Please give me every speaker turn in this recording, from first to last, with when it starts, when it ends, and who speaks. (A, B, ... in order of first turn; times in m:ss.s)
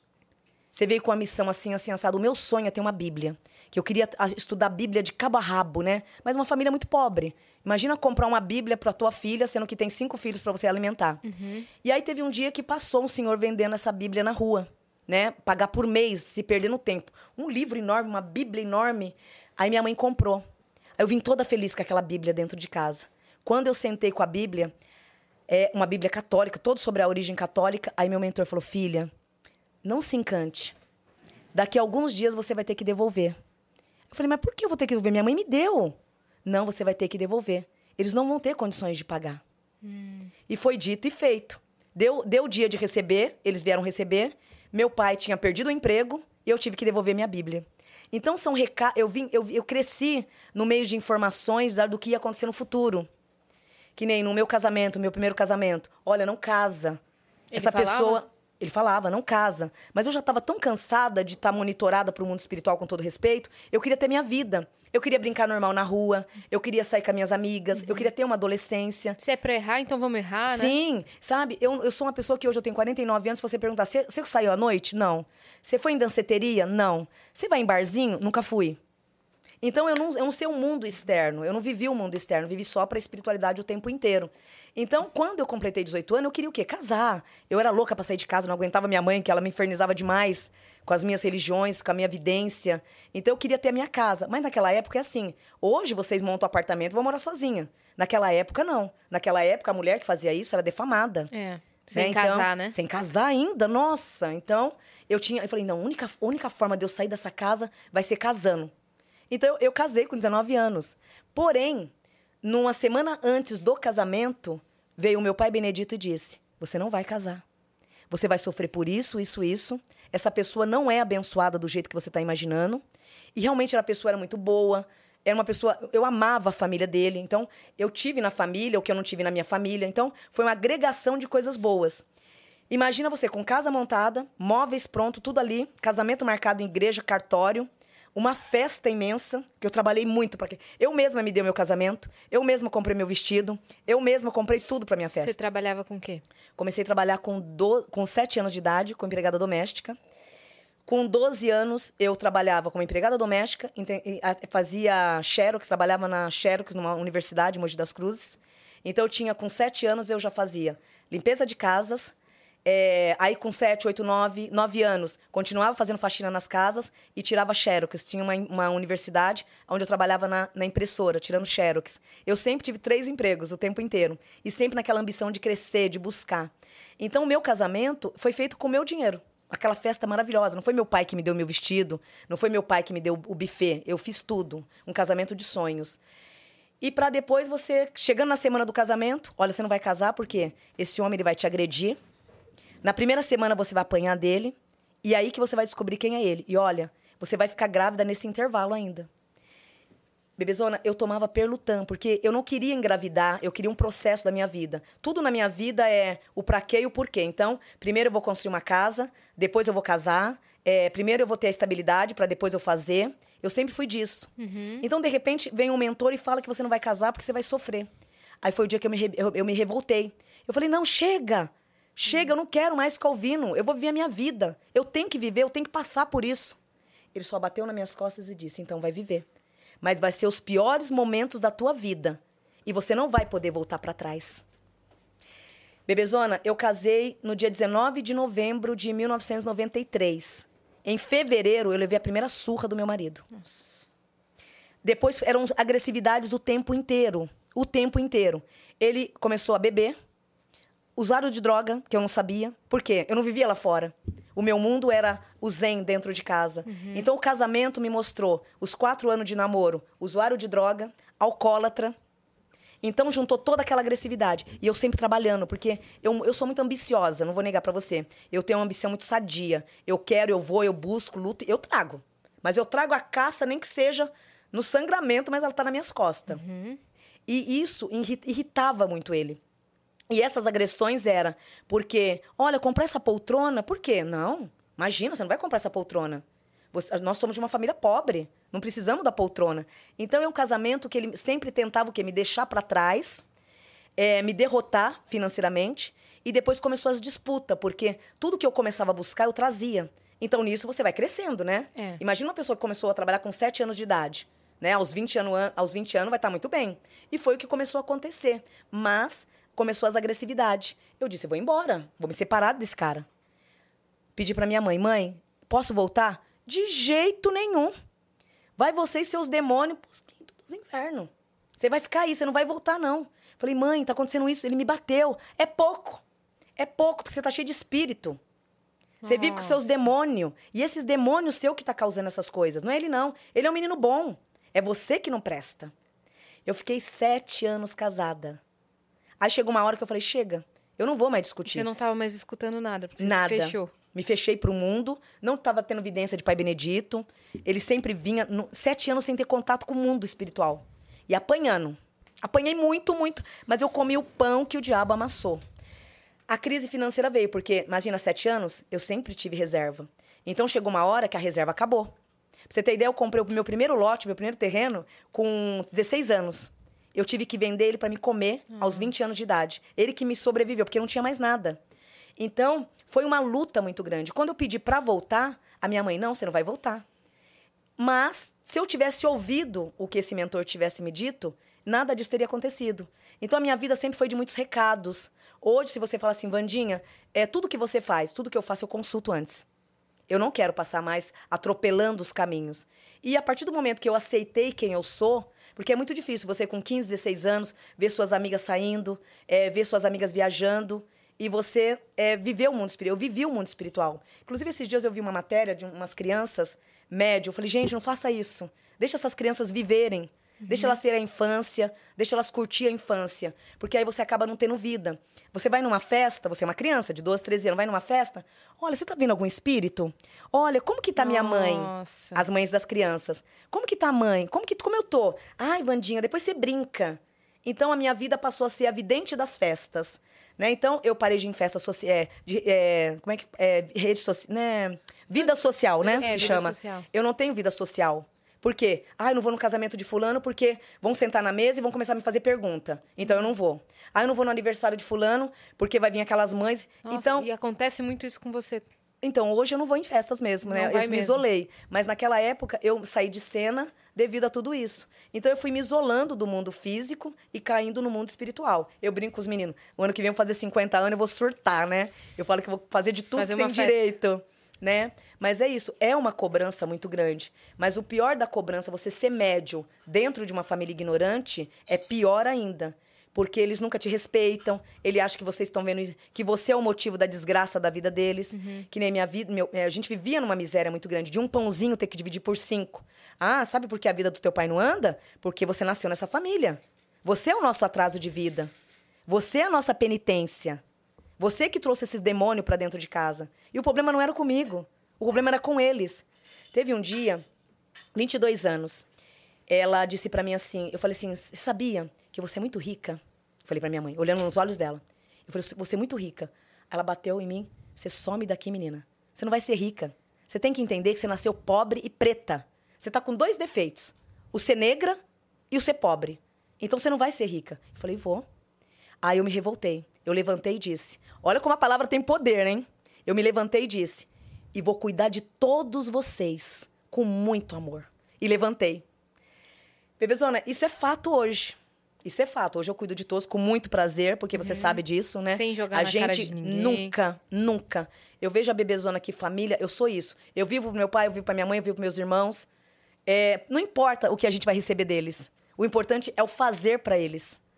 0:00.7-0:11.2 A
0:11.2-0:11.7 B
0:11.8-0:20.4 A
0:21.0-0:24.7 A
0:25.5-0:29.1 A
0:29.8-0:30.7 A
0:31.5-0:33.4 A
0:34.1-0:39.4 A
0:39.8-0:40.3 B
0:40.5-0:53.1 A
0:54.0-0:57.0 A
0:57.5-0:58.2 B
0:57.5-1:09.2 A
1:09.2-1:10.8 B
1:10.5-1:18.8 A
1:19.6-1:41.3 A
1:41.3-1:42.8 B
1:41.9-1:48.7 A
1:49.3-1:51.9 A
1:52.4-1:57.4 A
1:58.1-2:02.8 A
2:03.3-2:12.0 A
2:12.7-2:25.4 A
2:25.2-2:26.2 B
2:26.6-2:30.0 A
2:30.8-2:42.1 A
2:42.6-3:06.0 A
3:06.8-3:12.0 A
3:12.8-3:19.1 A
3:20.4-3:37.9 A
3:34.4-3:34.8 B
3:38.4-3:46.6 A
3:47.1-3:49.2 A
3:49.8-3:54.4 A
3:55.9-4:03.2 A
4:03.3-4:03.8 B
4:04.8-4:10.0 A
4:11.0-4:21.9 A
4:16.6-4:17.1 B
4:22.8-4:36.4 A
4:36.3-4:36.8 B
4:37.3-4:39.4 A
4:40.1-4:53.2 A
4:54.0-5:13.0 A
5:01.8-5:02.0 B
5:14.2-5:17.7 A
5:18.6-5:26.0 A
5:26.6-5:28.2 A
5:29.0-5:29.9 B
5:29.0-5:35.7 A
5:36.4-5:38.4 A
5:39.2-5:41.6 A
5:41.5-5:43.7 B
5:43.0-5:55.4 A
5:56.3-6:01.9 A
6:02.5-6:11.6 A
6:12.2-6:16.8 A
6:17.8-6:29.4 A
6:30.1-7:27.3 A
6:50.4-6:50.8 B
7:01.0-7:02.2 B
7:15.8-7:16.9 B
7:26.8-7:28.7 B
7:29.0-8:08.5 A
7:30.4-7:31.2 B
7:43.2-7:43.8 B
7:58.3-7:58.7 B
8:09.1-8:10.6 A
8:11.2-8:17.2 A
8:17.9-8:18.8 A
8:19.5-8:35.0 A
8:35.5-8:38.2 A
8:39.0-8:48.8 A
8:50.0-9:02.5 A
8:54.4-8:56.9 B
9:03.0-9:07.4 A